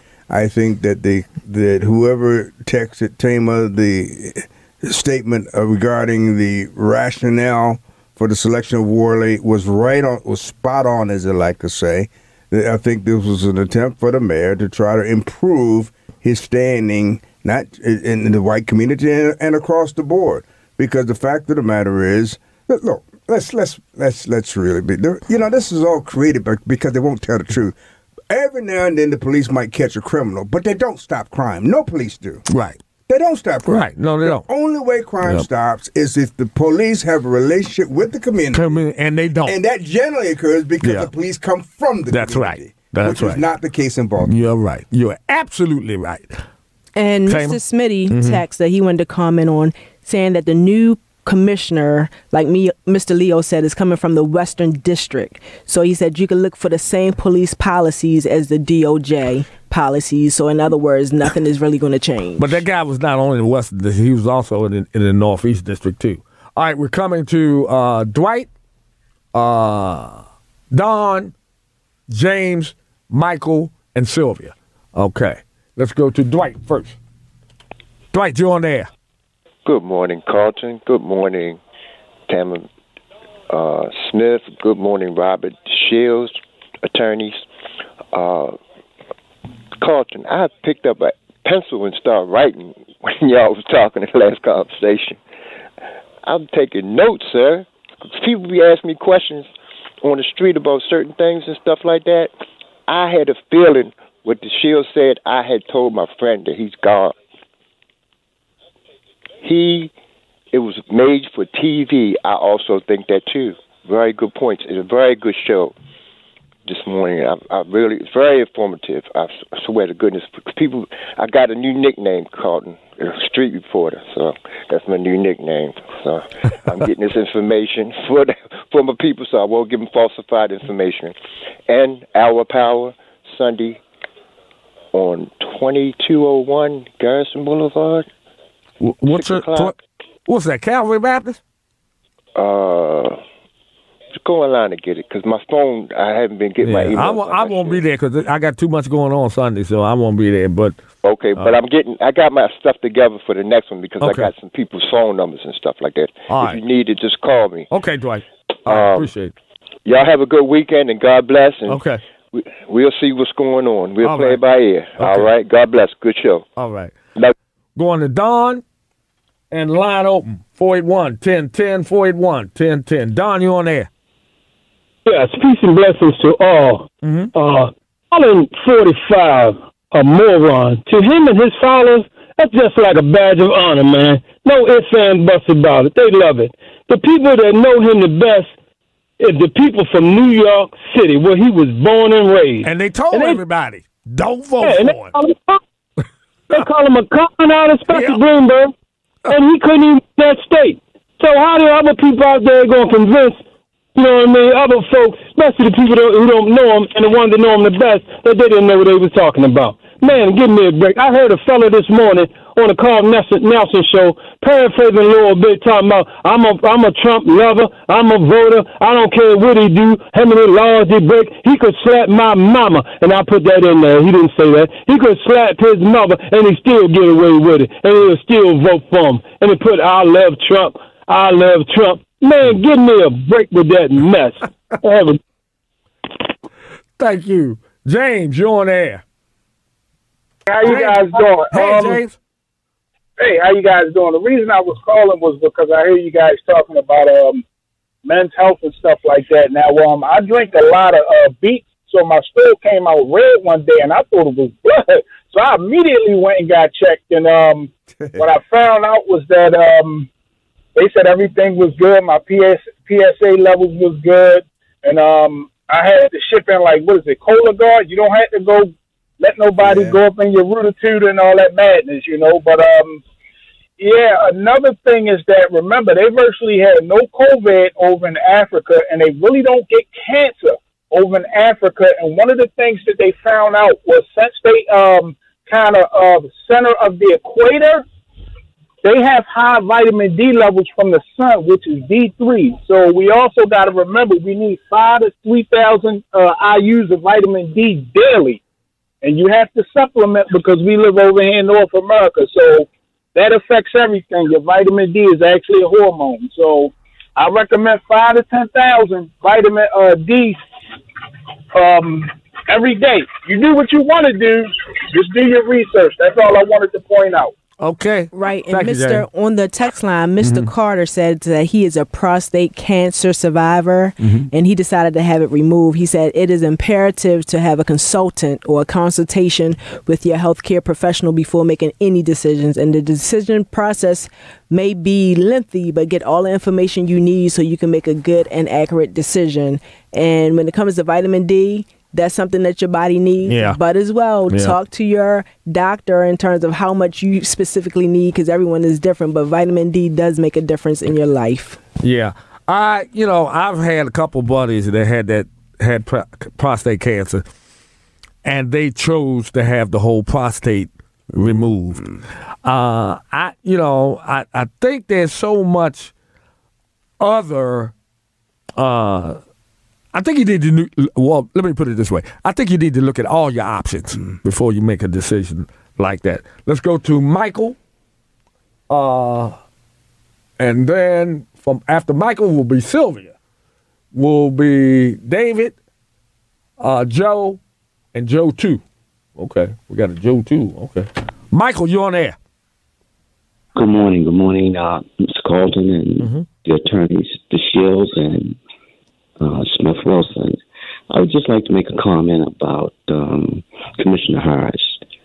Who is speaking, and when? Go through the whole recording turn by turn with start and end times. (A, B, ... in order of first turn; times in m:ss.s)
0:00.3-0:27.8 A
0:28.3-0:32.4 A
0:32.5-0:32.8 B
0:33.1-0:38.8 A
0:33.6-0:34.4 B
0:38.5-0:39.6 B
0:39.4-0:44.3 A
0:40.8-0:41.1 B
0:42.1-0:43.4 B
0:44.2-0:46.4 B
0:47.0-1:02.6 C
0:47.3-0:47.6 B
0:48.1-0:48.4 B
1:02.4-1:08.5 B
1:09.3-1:11.3 B
1:12.1-1:17.0 B
1:18.1-1:18.9 B
1:19.7-1:21.6 D
1:22.3-1:22.7 D
1:23.5-1:27.4 D
1:28.1-1:28.6 D
1:29.8-1:35.2 D
1:36.2-1:39.5 D
1:40.0-1:42.3 D
1:42.9-1:47.2 D
1:49.4-1:49.9 D
1:50.5-1:55.7 D
1:56.7-2:11.2 D
2:11.7-2:13.8 D
2:14.9-2:18.1 D
2:18.8-2:19.8 B
2:19.1-2:19.8 D
2:20.3-2:21.4 B
2:22.4-2:23.2 D
2:24.2-2:27.9 D
2:26.6-2:30.8 B
2:31.0-2:37.7 D
2:34.0-2:34.3 B
2:36.3-2:36.6 B
2:37.7-2:39.3 B
2:38.7-2:39.1 D
2:39.8-2:46.5 D
2:41.7-2:42.0 B
2:44.0-2:44.4 B
2:45.0-2:45.3 B
2:46.6-2:46.9 B
2:47.8-2:48.6 B
2:49.5-2:53.9 B
2:55.1-3:08.5 E
2:57.0-2:57.3 B
3:09.2-3:13.4 E
3:12.6-3:15.1 B
3:14.6-3:15.6 E
3:16.5-3:18.7 E
3:17.9-3:18.2 B
3:19.3-3:23.4 E
3:24.0-3:55.2 E
3:57.0-3:59.0 B
4:00.5-4:02.0 F
4:00.6-4:02.2 B
4:03.2-4:07.4 F
4:08.0-4:20.1 F
4:20.8-4:33.0 F
4:29.6-4:30.0 A
4:33.8-4:47.8 F
4:48.8-4:58.4 F
4:59.0-5:10.4 F
5:11.5-5:17.3 F
5:17.6-5:19.0 B
5:18.1-5:51.6 C
5:20.2-5:20.5 B
5:24.0-5:24.3 B
5:43.3-5:43.6 B
5:44.3-5:44.6 B
5:51.8-5:57.2 B
5:58.2-6:01.8 B
6:01.2-6:02.0 A
6:02.4-6:05.9 B
6:07.0-6:07.7 B
6:08.6-6:09.2 B
6:09.9-6:17.6 B
6:18.7-6:19.4 B
6:20.4-6:23.1 B
6:23.9-6:25.6 B
6:26.6-6:27.4 B
6:28.0-6:28.6 B
6:29.2-6:32.2 B
6:33.6-6:38.4 G
6:36.0-6:36.2 B
6:39.2-6:40.4 G
6:40.9-6:44.8 G